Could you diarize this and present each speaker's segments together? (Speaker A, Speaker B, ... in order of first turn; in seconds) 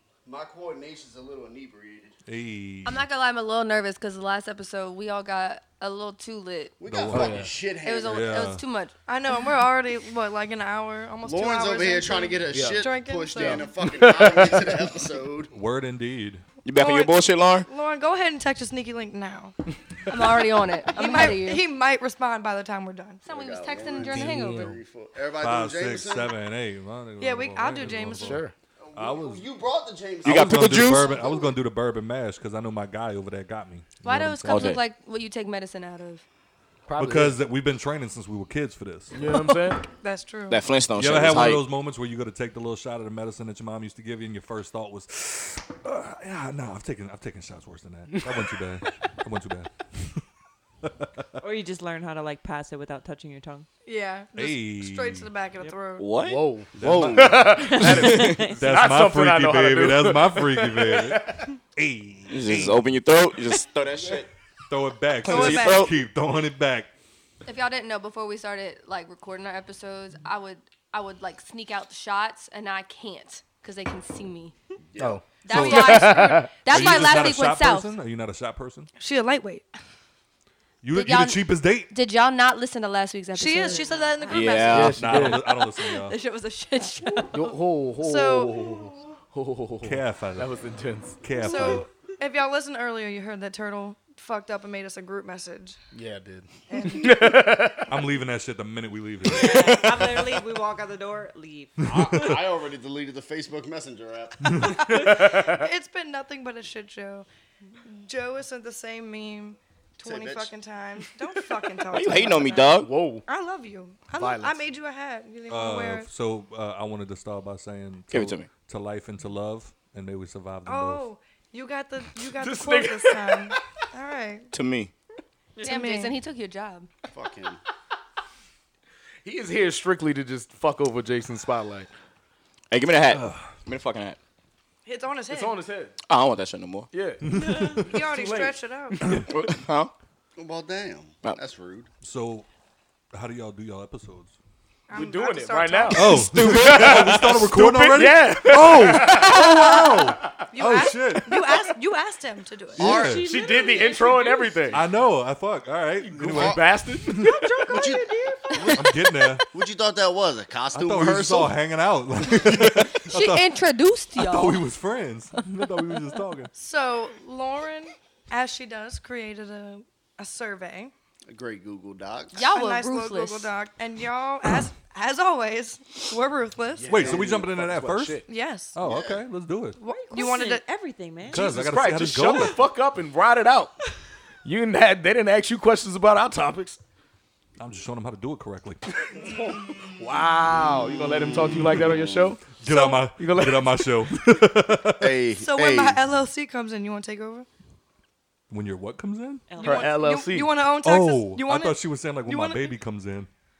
Speaker A: 0.2-2.2, 6.8-8.4, 11.2-15.5, 23.2-26.4, 28.8-31.5, 74.9-75.2, 101.9-104.8, 110.0-110.5, 127.1-127.6, 140.4-141.9, 152.8-153.2, 156.3-156.6, 157.7-158.8, 159.5-161.5, 171.3-172.4, 178.8-179.2, 190.9-192.3, 195.0-196.0
Speaker B: 2.3-3.0, 6.8-7.4, 8.0-8.6, 15.5-16.4, 25.4-28.4, 28.9-29.4, 30.2-34.7, 37.0-39.1, 40.9-50.2, 50.8-51.3, 54.4-55.3, 56.8-62.9, 64.7-66.9, 76.6-78.9, 80.8-81.9, 84.8-86.2, 89.8-90.5, 91.2-91.8, 97.9-99.8, 101.8-102.4, 104.5-105.2, 115.5-121.0, 133.1-133.5, 137.2-137.9, 142.0-142.4, 143.1-144.3, 145.9-151.6, 152.8-153.3, 154.7-157.3, 158.7-159.4, 160.7-163.5, 164.2-166.5, 176.9-178.2, 178.7-179.8, 181.3-182.6, 187.6-188.8, 192.5-195.1, 198.5-199.5, 200.7-203.3
Speaker C: 2.8-6.8, 7.8-8.9, 20.1-21.6, 23.2-24.7, 34.0-36.2, 67.4-74.5, 75.4-77.9, 80.9-84.3, 85.5-87.5, 125.6-126.9, 163.0-164.6, 172.3-173.5
Speaker D: 7.1-7.5, 12.5-14.8, 24.0-24.8, 28.1-28.5, 36.9-37.4, 39.1-39.8, 56.2-61.5, 75.0-76.6, 84.7-85.5, 87.3-91.8, 95.9-98.1, 105.2-105.6, 112.7-113.2, 114.2-114.6, 122.2-123.6, 129.2-131.9, 135.3-135.9, 136.9-138.6, 144.9-150.4, 153.2-154.8, 156.0-158.4, 176.8-178.2, 181.3-183.7, 184.4-186.8, 189.1-194.0, 199.6-200.6
Speaker E: 9.1-13.7, 16.7-19.6, 20.9-23.2, 27.2-28.4, 39.2-40.6, 53.8-56.1, 65.2-65.8, 75.4-76.4, 79.0-79.7, 83.3-84.9, 88.0-89.0, 91.3-95.8, 96.7-97.3, 104.6-107.2, 107.8-116.1, 120.7-124.5, 125.6-126.2, 134.8-135.6, 137.8-139.0, 144.9-146.1, 149.0-152.8, 166.5-170.9, 172.5-177.1, 178.3-178.8, 179.8-180.6, 192.7-192.9, 195.4-197.5, 199.6-202.7
Speaker F: 16.6-17.7, 30.2-31.1, 34.5-34.8, 40.5-41.6, 56.0-58.4, 62.3-64.3, 65.2-66.0, 84.3-85.0, 111.9-112.9, 118.1-118.5, 124.5-124.9, 132.7-134.2, 136.1-136.9, 139.3-139.9, 146.0-147.4
Speaker G: 51.4-53.7, 57.5-58.6, 83.7-84.7, 99.3-101.8, 137.3-137.8, 152.8-154.9, 157.1-158.7, 179.9-181.6, 199.5-200.0